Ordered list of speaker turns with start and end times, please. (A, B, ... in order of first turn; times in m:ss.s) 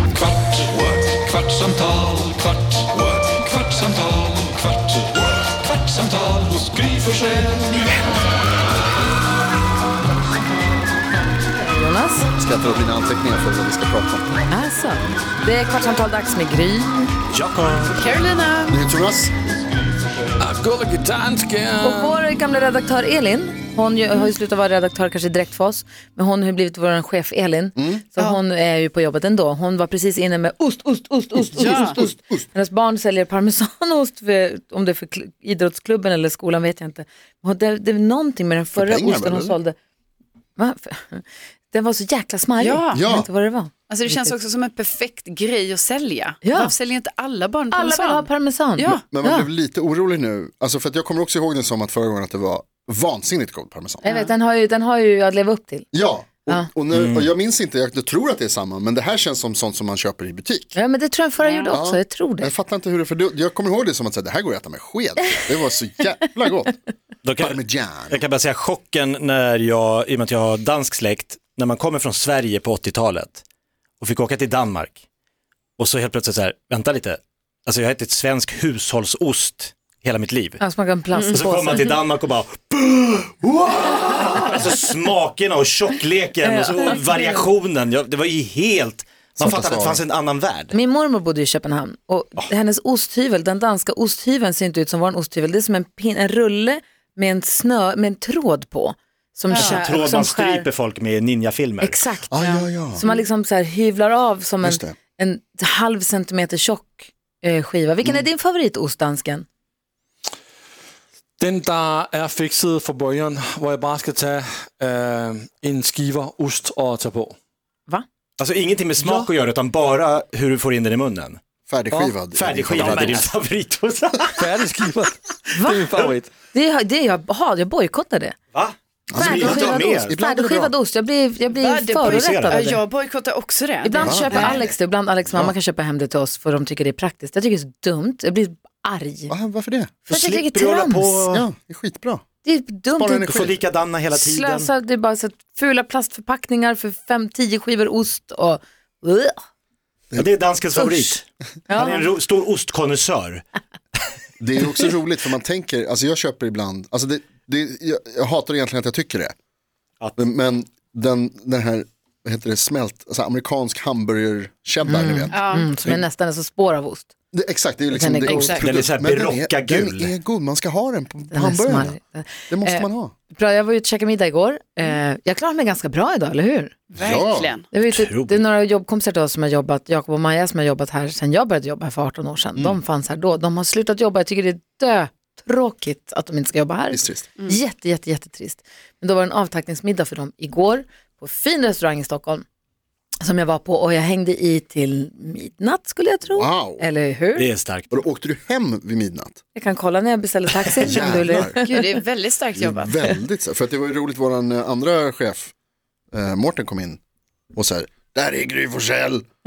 0:00.2-0:05.0 A
0:05.7-0:07.7 A
0:11.5-0:12.3 B
0:12.4-0:14.4 C
0:14.5-0:17.1 B
0:17.3-0:17.9 D
0:17.6-0:17.9 E
0:18.0-0:18.8 F
0:18.7-0:19.3 C
0:20.4-0:22.2 D
0:21.8-0:39.8 B
0:27.8-0:28.0 C
0:31.5-0:32.5 C
0:31.6-0:32.0 F
0:38.8-0:39.6 C
0:40.6-0:44.3 B
0:42.6-0:43.1 F
0:42.9-0:43.3 C
0:43.9-0:49.0 F
0:46.4-0:46.7 B
0:47.7-0:49.5 B
0:49.0-0:54.0 C
0:54.0-0:55.9 B
0:54.0-0:54.3 F
0:55.9-1:00.8 C
0:56.9-0:57.3 E
1:00.8-1:02.5 B
1:01.4-1:01.7 F
1:01.7-1:06.8 C
1:07.2-1:13.4 E
1:07.4-1:08.2 C
1:14.0-1:15.0 E
1:15.8-1:20.6 E
1:20.6-1:21.9 B
1:21.1-1:21.4 F
1:21.3-1:30.8 E
1:26.4-1:27.4 B
1:29.4-1:30.0 C
1:30.7-1:40.7 B
1:39.5-1:39.9 F
1:39.5-1:42.0 E
1:41.8-1:49.5 B
1:42.3-1:43.0 C
1:42.4-1:43.2 F
1:44.6-1:45.0 C
1:51.4-1:57.4 D
1:58.4-2:01.4 E
1:59.0-1:59.3 D
2:01.7-2:03.2 C
2:01.9-2:02.2 D
2:02.3-2:04.4 E
2:02.7-2:03.3 D
2:04.4-2:06.3 D
2:05.5-2:05.9 B
2:06.5-2:08.4 B
2:08.5-2:10.2 E
2:09.1-2:10.7 C
2:09.1-2:12.8 B
2:11.5-2:14.7 F
2:12.1-2:12.7 E
2:13.8-2:19.3 B
2:14.0-2:14.6 C
2:15.3-2:15.6 C
2:19.3-2:19.9 C
2:20.1-2:21.4 B
2:20.1-2:21.5 E
2:21.3-2:22.2 C
2:22.4-2:23.3 B
2:22.9-2:23.6 C
2:23.3-2:24.7 E
2:24.1-2:29.4 B
2:30.2-2:33.4 E
2:30.8-2:31.2 B
2:31.7-2:32.0 B
2:34.4-2:39.3 C
2:40.2-2:46.0 C
2:44.9-2:47.1 B
2:45.3-2:45.7 F
2:47.3-2:53.1 C
2:47.9-2:48.6 B
2:48.3-2:48.7 F
2:48.6-2:50.1 E
2:51.3-2:56.9 B
2:56.9-2:57.7 F
2:57.0-2:57.5 C
2:57.7-3:12.4 B
2:57.9-2:58.4 E
3:06.9-3:07.3 C
3:13.2-3:17.5 B
3:16.3-3:16.9 C
3:17.4-3:18.0 E
3:17.9-3:19.4 C
3:19.6-3:21.9 B
3:20.8-3:21.6 C
3:21.7-3:23.0 F
3:22.6-3:25.5 C
3:26.1-3:27.0 C
3:27.5-3:29.2 C